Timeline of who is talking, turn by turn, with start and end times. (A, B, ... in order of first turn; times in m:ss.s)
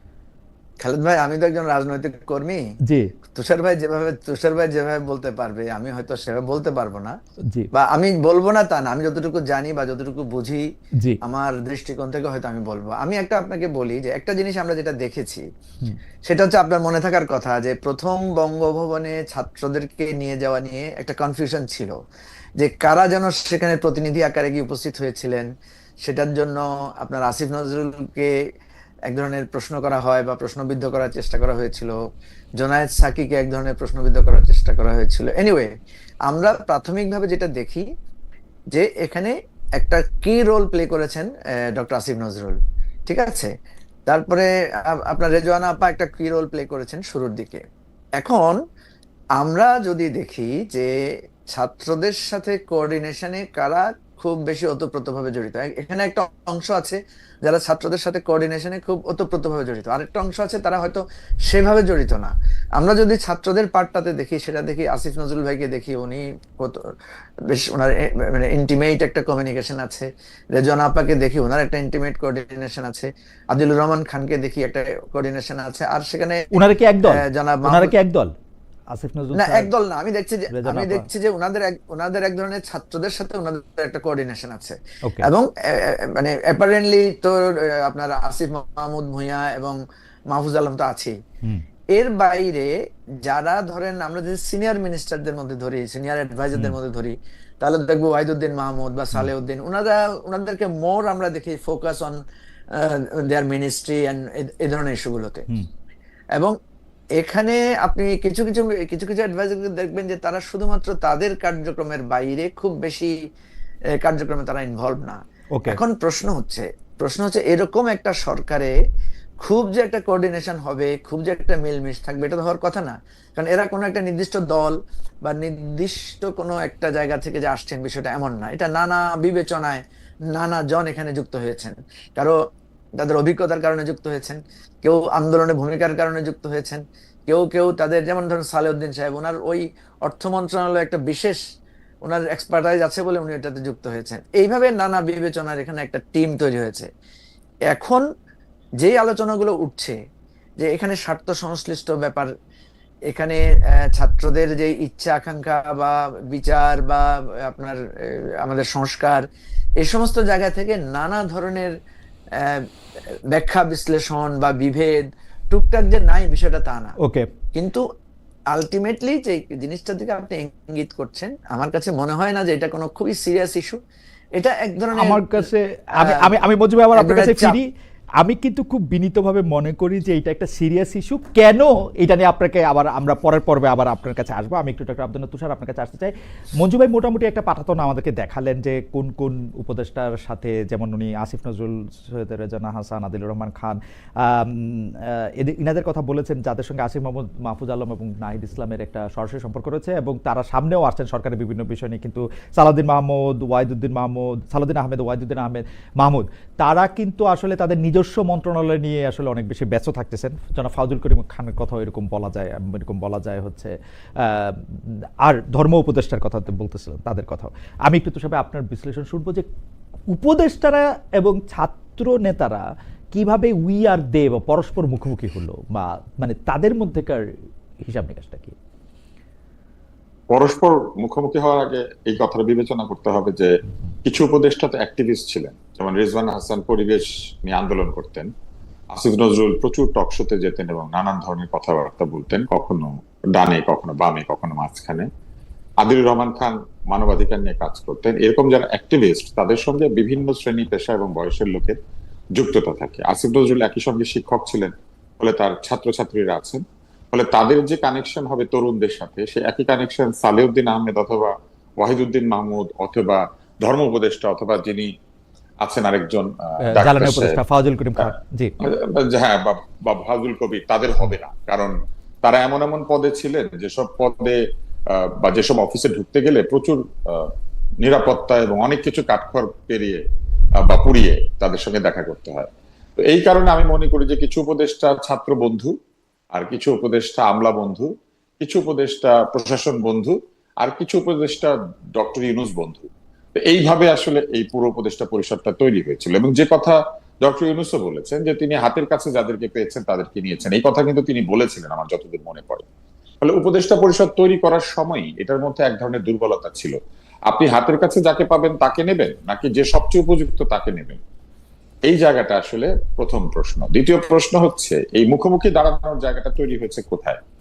0:00.8-0:02.6 A
0:03.4-0:07.1 A
0:07.7-0:10.6 A
0:11.2-0:15.4 A
0:16.3-0:22.0 A
0:22.6-0:25.5 A
0:26.0-0:28.3 A
0:29.1-0:32.0 A
0:32.6-0:35.7 A
0:36.3-0:37.9 A
0:38.7-0:43.5 A
0:44.1-0:47.6 A
0:48.2-0:48.6 A
0:49.4-0:50.9 A
0:51.5-1:06.8 A
1:07.5-1:16.5 A
1:16.5-1:18.3 B
1:17.0-1:18.0 A
1:18.9-1:19.7 B
1:19.4-1:29.8 A
1:20.5-1:21.1 B
1:30.3-1:31.1 A
1:31.9-1:32.7 A
1:33.2-1:42.2 A
1:42.7-1:45.5 A
1:47.2-1:53.1 A
1:54.0-1:58.7 A
1:59.4-2:12.4 A
2:13.0-2:21.4 A
2:22.0-2:26.9 A
2:27.7-2:28.0 A
2:28.8-2:30.0 A
2:30.6-2:32.3 A
2:33.1-2:39.2 A
2:39.8-2:41.7 A
2:42.4-2:42.6 A
2:43.3-2:46.9 A
2:47.0-2:47.3 B
2:47.6-2:47.8 A
2:48.5-2:53.8 A
2:54.4-2:56.3 A
2:55.0-2:57.7 B
2:56.9-2:57.6 A
2:58.2-3:34.6 B
3:35.2-3:39.5 B
3:40.1-3:42.6 B
3:43.1-3:47.2 B
3:47.9-3:48.6 B
3:50.3-3:53.5 C
3:54.0-3:58.3 C
3:58.9-4:05.1 C
4:05.8-4:11.8 C
4:12.4-4:24.9 C
4:25.6-4:27.4 C
4:26.7-4:28.5 B
4:28.6-4:34.4 C
4:34.9-4:37.3 C
4:37.8-4:40.0 C
4:40.6-4:42.5 C
4:43.1-4:45.7 C
4:46.3-5:02.7 C
5:03.2-5:06.8 C
5:07.3-5:11.0 C
5:11.8-5:17.2 C